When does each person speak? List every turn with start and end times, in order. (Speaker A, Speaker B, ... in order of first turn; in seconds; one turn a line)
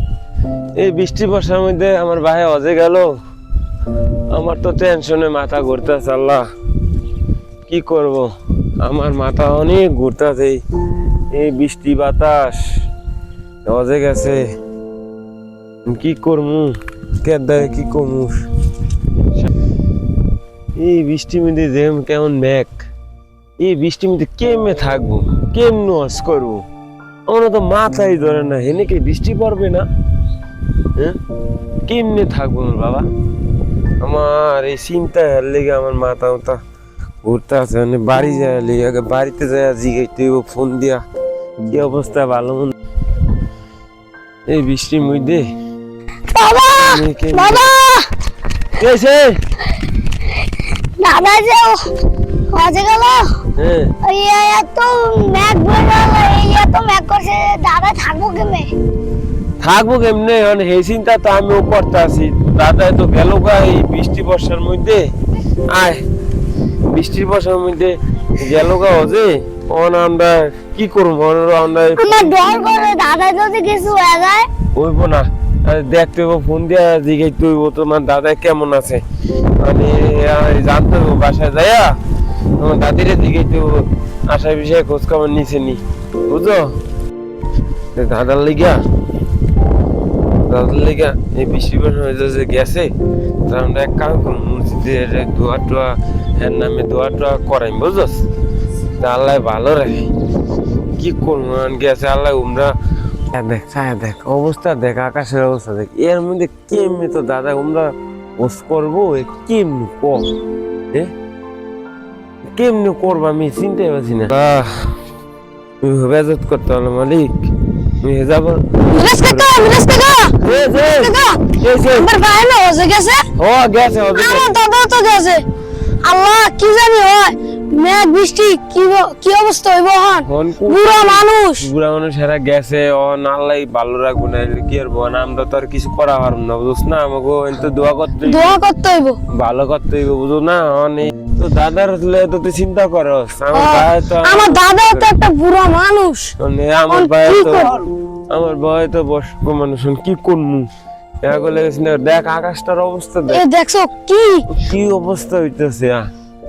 Speaker A: 0.8-3.1
Speaker A: 4.3-6.5
Speaker A: 7.7-8.3
Speaker A: 8.8-10.6
Speaker A: 11.3-12.6
Speaker A: 13.7-14.4
Speaker A: 15.9-18.4
Speaker A: 20.8-22.8
Speaker A: 23.6-26.6
Speaker A: 27.3-29.9
Speaker A: 31.9-33.1
Speaker A: 34.0-36.6
Speaker A: 37.2-41.0
Speaker A: 41.7-42.8
Speaker A: 44.5-45.5
Speaker B: 46.3-48.1
Speaker A: 46.8-47.7
Speaker A: 48.7-49.4
Speaker B: 51.0-51.8
Speaker B: 52.5-53.3
Speaker A: 53.6-53.9
Speaker B: 54.0-58.7
Speaker A: 59.6-65.1
Speaker A: 65.7-66.0
Speaker A: 66.9-72.3
Speaker B: 72.0-74.5
Speaker A: 74.8-79.0
Speaker A: 79.6-82.0
Speaker A: 82.6-86.7
Speaker A: 88.0-88.8
Speaker A: 90.5-92.9
Speaker A: 93.5-98.2
Speaker A: 99.0-100.1
Speaker A: 101.0-102.7
Speaker A: 103.3-110.3
Speaker A: 112.6-114.9
Speaker A: 115.8-117.4
Speaker A: 118.0-119.7
Speaker B: 118.9-123.2
Speaker A: 120.4-122.1
Speaker A: 123.4-124.5
Speaker B: 124.2-125.4
Speaker B: 126.0-131.7
Speaker A: 130.3-138.6
Speaker B: 138.3-139.2
Speaker A: 139.3-145.1
Speaker B: 143.5-146.3
Speaker A: 146.4-147.8
Speaker B: 146.9-147.9
Speaker A: 148.3-150.7
Speaker A: 151.2-153.4
Speaker B: 153.3-154.5
Speaker A: 154.5-156.1